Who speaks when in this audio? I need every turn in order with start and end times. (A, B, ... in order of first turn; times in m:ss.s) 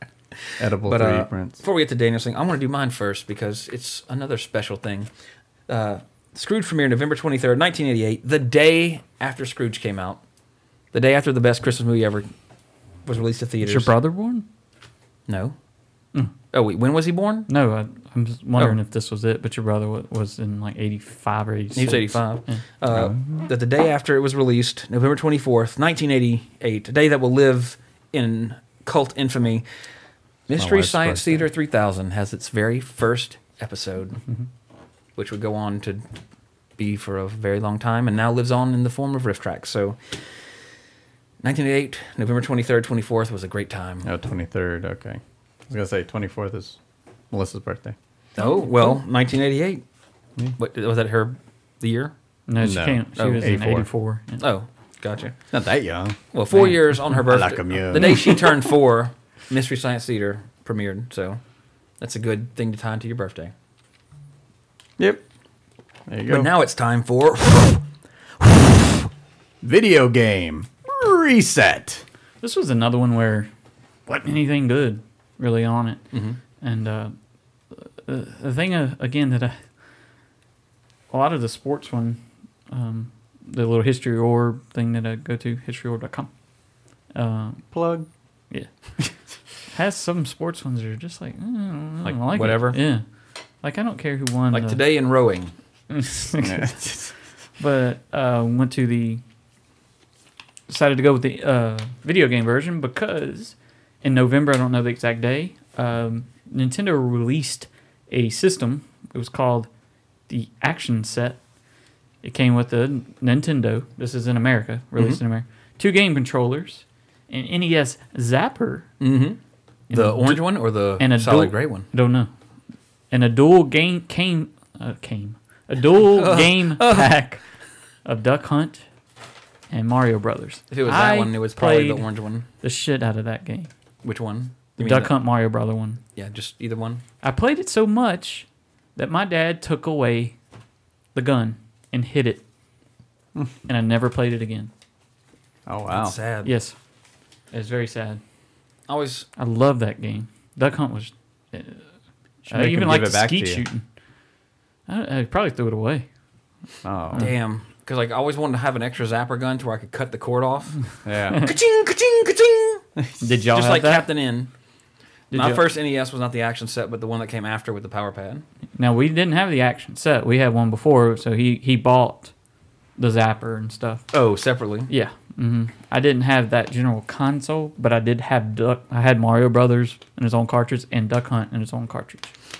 0:00.6-0:01.6 A
0:00.8-0:05.1 B
0:05.7-0:10.2 B
0:10.9-0:12.3 B
0:13.0-0:13.9 B
0:13.6-0:14.4 C
0:15.3-0:15.5 B
0:16.5-0:17.5 B
0:17.5-0:22.6 C
0:21.8-0:29.6 B
0:22.9-0:23.4 A
0:30.5-0:34.2 B
0:30.5-0:31.5 A
0:35.2-0:36.0 B
0:36.8-0:40.0 B
0:41.4-0:44.1 B
0:44.0-0:46.8 A
0:47.3-0:48.0 A
0:48.4-0:49.8 B
0:50.6-0:52.1 B
0:52.5-0:54.4 C
0:52.6-0:53.9 A
0:54.4-0:55.3 B
0:55.5-0:56.2 A
0:56.3-1:01.4 B
0:57.1-0:58.6 A
1:02.0-1:03.5 B
1:05.0-1:05.2 A
1:06.1-1:06.5 A
1:06.3-1:07.8 B
1:09.6-1:12.0 A
1:12.4-1:13.5 C
1:14.1-1:16.0 C
1:16.1-1:16.4 B
1:16.6-1:17.1 C
1:17.7-1:19.6 C
1:21.1-1:26.3 C
1:27.1-1:27.6 C
1:27.7-1:28.1 A
1:29.7-1:33.0 C
1:32.0-1:32.8 B
1:33.6-1:34.8 C
1:34.5-1:35.5 B
1:35.9-1:36.9 C
1:36.4-1:37.1 A
1:37.6-1:39.2 C
1:40.7-1:49.7 C
1:50.3-1:51.4 C
1:52.2-1:58.9 C
1:59.0-1:59.4 B
1:59.9-2:01.9 B
1:59.9-2:02.3 C
2:03.1-2:07.4 C
2:06.0-2:07.1 B
2:08.0-2:08.8 C
2:09.7-2:12.0 C
2:10.7-2:12.5 B
2:12.6-2:13.7 C
2:14.0-2:15.1 B
2:14.8-2:16.0 C
2:16.2-2:17.0 B
2:17.2-2:20.4 C
2:21.1-2:22.4 C
2:23.7-2:24.7 C
2:25.7-2:26.1 A
2:25.9-2:26.5 B
2:26.4-2:26.7 C
2:27.5-2:28.2 C
2:28.9-2:29.2 B
2:29.4-2:31.8 C
2:32.4-2:33.8 C
2:32.5-2:33.6 A
2:34.9-2:36.0 C
2:36.8-2:37.3 A
2:37.2-2:40.8 B
2:41.0-2:41.4 A
2:41.4-2:42.8 B
2:43.2-2:44.1 C
2:43.5-2:44.5 B
2:45.3-2:48.4 B
2:45.3-2:45.6 C
2:48.8-2:52.3 C
2:53.0-2:54.0 C
2:54.1-2:54.9 B
2:54.9-3:02.3 C